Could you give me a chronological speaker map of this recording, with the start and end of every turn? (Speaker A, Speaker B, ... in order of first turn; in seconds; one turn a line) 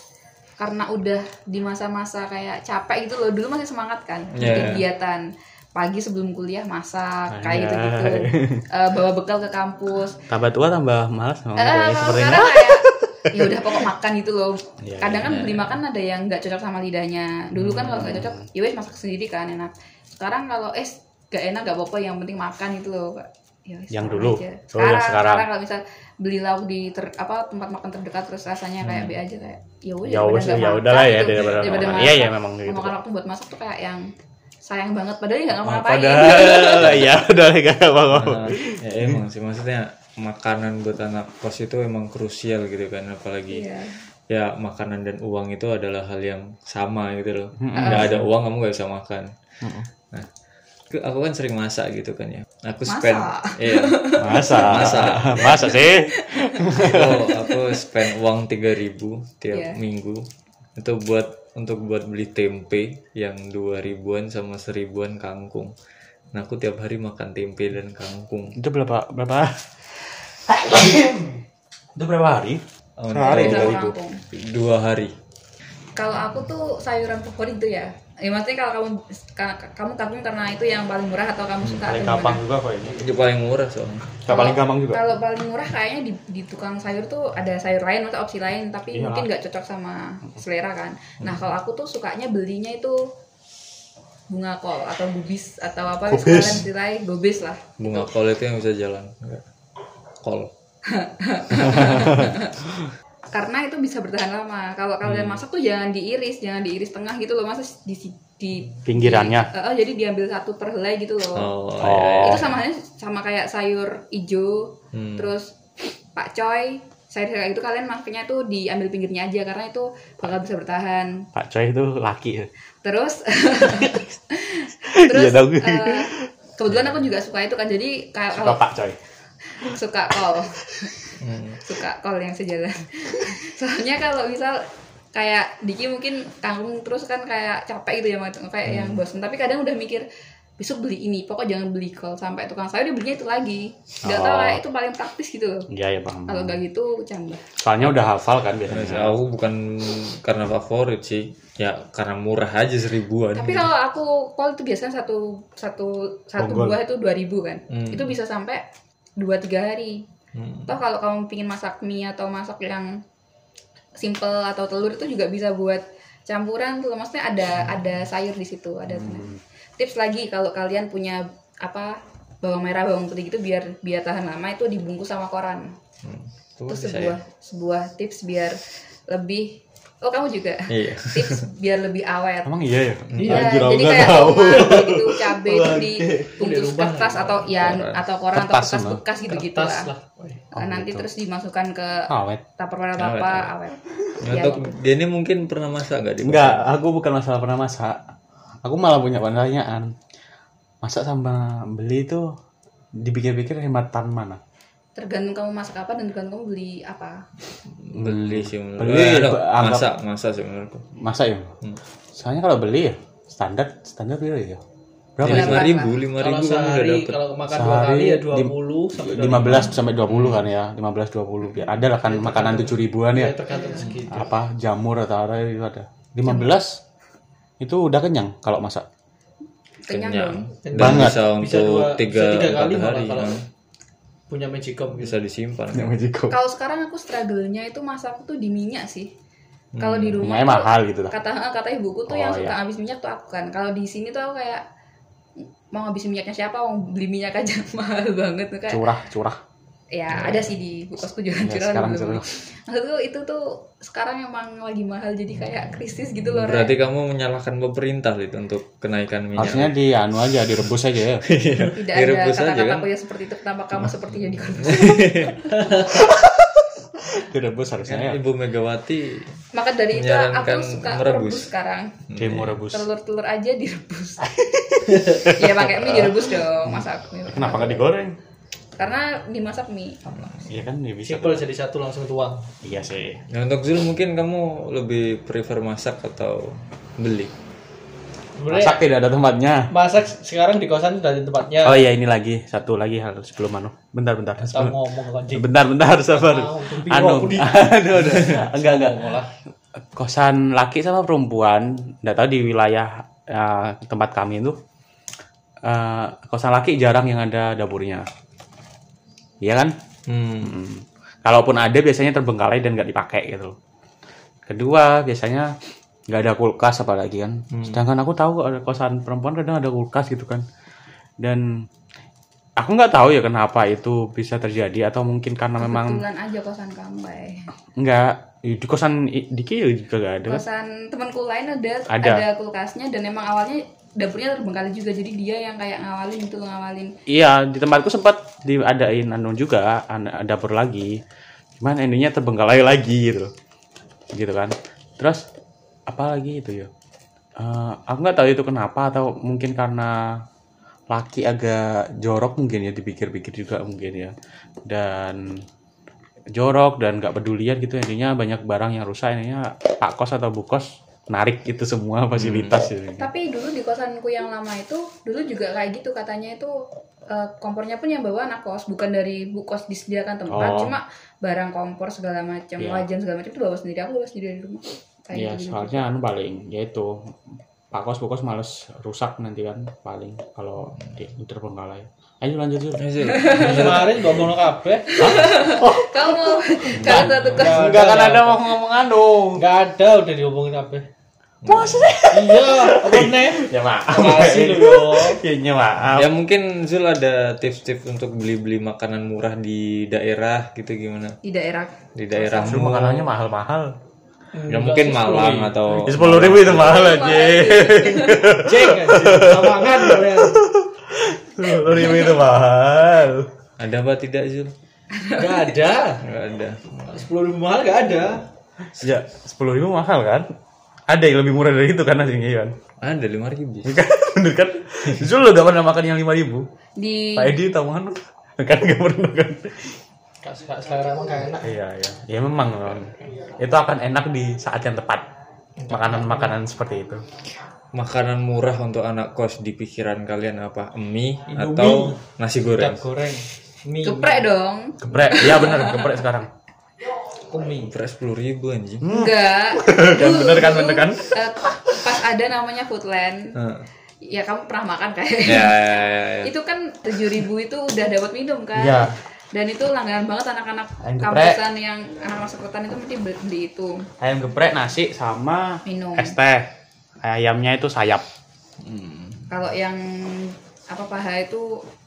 Speaker A: 0.6-10.2
Speaker B: 4.3-4.9
Speaker C: 7.3-8.7
Speaker C: 10.3-13.7
Speaker A: 11.6-34.1
Speaker C: 14.8-15.4
Speaker B: 15.2-15.8
Speaker C: 17.6-18.4
Speaker C: 23.9-25.5
Speaker B: 28.8-29.2
Speaker C: 30.1-33.0
Speaker B: 31.4-31.9
Speaker A: 34.6-37.1
Speaker C: 35.6-39.2
Speaker B: 38.1-43.7
Speaker A: 43.5-44.0
Speaker B: 44.3-49.3
Speaker C: 47.6-48.2
Speaker A: 47.8-48.1
Speaker C: 49.6-49.9
Speaker B: 50.9-55.7
Speaker A: 52.9-57.6
Speaker C: 54.2-57.2
Speaker B: 56.7-65.7
Speaker A: 59.5-59.8
Speaker B: 66.3-68.5
Speaker C: 68.6-71.4
Speaker C: 72.0-73.9
Speaker B: 73.0-75.1
Speaker A: 73.2-74.2
Speaker A: 76.0-82.4
Speaker C: 81.8-83.0
Speaker B: 82.8-84.1
Speaker C: 84.2-85.0
Speaker A: 84.3-93.1
Speaker C: 88.9-89.3
Speaker A: 94.3-97.6
Speaker C: 96.1-96.6
Speaker B: 97.8-99.4
Speaker B: 100.2-100.5
Speaker A: 100.8-102.5
Speaker C: 101.7-102.3
Speaker A: 103.3-111.5
Speaker B: 105.0-105.4
Speaker C: 108.8-109.5
Speaker B: 111.3-112.6
Speaker C: 111.8-112.5
Speaker A: 112.2-115.5
Speaker B: 114.9-115.3
Speaker A: 116.1-121.3
Speaker C: 121.3-122.5
Speaker A: 122.8-128.6
Speaker C: 124.9-126.3
Speaker C: 128.3-129.0
Speaker A: 129.6-130.9
Speaker B: 131.2-131.6
Speaker A: 131.6-140.0
Speaker B: 138.7-139.0
Speaker A: 140.6-145.7
Speaker C: 144.0-144.6
Speaker C: 145.7-146.6
Speaker A: 146.3-147.4
Speaker C: 147.6-149.2
Speaker B: 148.7-153.7
Speaker A: 153.3-158.6
Speaker C: 156.4-156.8
Speaker B: 157.7-158.1
Speaker A: 159.2-160.0
Speaker B: 160.3-160.7
Speaker A: 160.7-163.0
Speaker A: 164.0-175.7
Speaker C: 168.9-169.4
Speaker B: 176.0-177.2
Speaker A: 176.7-182.5
Speaker B: 180.7-181.4
Speaker C: 182.4-186.3
Speaker B: 183.1-183.5
Speaker A: 183.2-189.9
Speaker D: 185.6-187.5
Speaker B: 187.4-188.0
Speaker C: 188.3-189.0
Speaker D: 189.3-190.4
Speaker C: 190.5-191.1
Speaker A: 190.5-194.7
Speaker C: 192.1-192.4
Speaker B: 193.0-193.5
Speaker B: 194.2-196.7
Speaker C: 196.2-198.0
Speaker C: 198.6-199.9
Speaker C: 200.8-202.3
Speaker C: 203.0-204.4
Speaker A: 204.9-207.2
Speaker B: 207.8-210.9
Speaker C: 207.9-209.9
Speaker C: 210.9-211.5
Speaker C: 212.1-214.6
Speaker C: 215.2-215.7
Speaker B: 215.2-217.2
Speaker A: 215.2-216.0
Speaker D: 216.2-219.8
Speaker C: 217.5-223.3
Speaker B: 220.1-220.4
Speaker D: 222.0-224.3
Speaker C: 224.1-226.8
Speaker C: 227.6-228.8
Speaker A: 229.9-230.5
Speaker B: 229.9-233.4
Speaker D: 230.6-233.4
Speaker C: 230.7-231.2
Speaker D: 234.3-235.2
Speaker B: 235.0-235.9
Speaker C: 235.7-236.4
Speaker A: 236.3-239.1
Speaker B: 239.7-240.3
Speaker A: 239.8-244.6
Speaker C: 240.2-241.1
Speaker C: 242.1-242.5
Speaker A: 245.7-248.8
Speaker C: 248.7-249.4
Speaker A: 249.9-256.7
Speaker B: 250.1-250.5
Speaker C: 251.4-252.2
Speaker B: 256.2-259.8
Speaker C: 259.4-261.2
Speaker B: 261.2-262.9
Speaker A: 261.6-265.5
Speaker B: 264.1-265.5
Speaker D: 265.5-266.0
Speaker C: 265.8-268.2
Speaker B: 267.9-271.5
Speaker A: 269.5-271.9
Speaker B: 272.1-272.6
Speaker C: 272.1-272.9
Speaker A: 272.7-274.3
Speaker C: 274.3-276.2
Speaker D: 274.9-275.2
Speaker A: 275.2-277.9
Speaker C: 277.3-278.1
Speaker A: 278.8-280.0
Speaker B: 280.1-280.5
Speaker C: 280.5-281.4
Speaker D: 281.0-282.5
Speaker C: 282.6-283.2
Speaker B: 283.3-287.3
Speaker D: 288.4-288.8
Speaker C: 288.5-289.7
Speaker D: 289.7-291.9
Speaker C: 291.6-294.8
Speaker D: 294.4-295.5
Speaker C: 295.3-299.0
Speaker D: 296.1-299.3
Speaker C: 299.9-304.6
Speaker C: 305.6-308.1
Speaker C: 309.4-309.7
Speaker B: 310.1-310.5
Speaker C: 310.4-313.6
Speaker C: 314.5-315.5
Speaker C: 316.1-320.4
Speaker B: 317.5-317.8
Speaker C: 321.2-321.6
Speaker C: 322.6-326.0
Speaker A: 325.6-327.5
Speaker C: 327.8-330.4
Speaker A: 330.3-336.9
Speaker C: 331.9-332.2
Speaker C: 337.1-341.0
Speaker C: 341.6-343.3
Speaker C: 344.1-345.2
Speaker C: 345.9-346.7
Speaker C: 347.4-350.2
Speaker C: 350.9-354.1
Speaker C: 354.6-355.4
Speaker C: 356.3-363.1
Speaker B: 362.1-362.5
Speaker A: 363.0-375.9
Speaker C: 370.3-370.7
Speaker C: 372.6-372.8
Speaker C: 375.1-377.0
Speaker C: 377.7-382.9
Speaker B: 382.8-384.2
Speaker A: 383.0-383.6
Speaker D: 383.3-385.1
Speaker A: 384.9-387.8
Speaker C: 385.0-389.4
Speaker B: 386.8-387.5
Speaker D: 387.3-388.4
Speaker D: 389.4-390.9
Speaker B: 391.4-391.9
Speaker C: 391.5-396.1
Speaker D: 392.1-395.2
Speaker B: 395.9-401.2
Speaker A: 401.2-402.6
Speaker B: 401.9-403.1
Speaker C: 402.3-403.7
Speaker D: 404.3-405.6
Speaker B: 404.5-407.0
Speaker C: 405.7-413.3
Speaker A: 406.4-408.4
Speaker D: 408.4-410.4
Speaker A: 411.7-412.2
Speaker B: 413.6-414.5
Speaker A: 414.9-415.5
Speaker D: 415.1-416.0
Speaker B: 416.0-417.0
Speaker D: 416.9-418.2
Speaker C: 418.8-420.3
Speaker C: 420.9-422.5
Speaker B: 422.8-423.7
Speaker C: 423.6-426.4
Speaker A: 426.8-427.4
Speaker C: 427.1-429.8
Speaker D: 430.2-431.5
Speaker C: 431.4-435.1
Speaker D: 435.6-436.4
Speaker C: 435.7-437.0
Speaker B: 437.7-442.8
Speaker D: 441.3-442.0
Speaker D: 442.6-444.3
Speaker A: 443.8-446.0
Speaker C: 444.8-446.3
Speaker D: 447.3-447.7
Speaker B: 447.7-448.9
Speaker C: 448.8-451.1
Speaker A: 448.9-453.4
Speaker B: 453.3-453.7
Speaker A: 454.0-463.9
Speaker B: 455.2-456.3
Speaker C: 458.6-458.9
Speaker C: 460.8-461.4
Speaker C: 464.0-466.5
Speaker A: 465.6-466.1
Speaker C: 467.0-468.0
Speaker B: 468.6-469.3
Speaker A: 469.3-471.6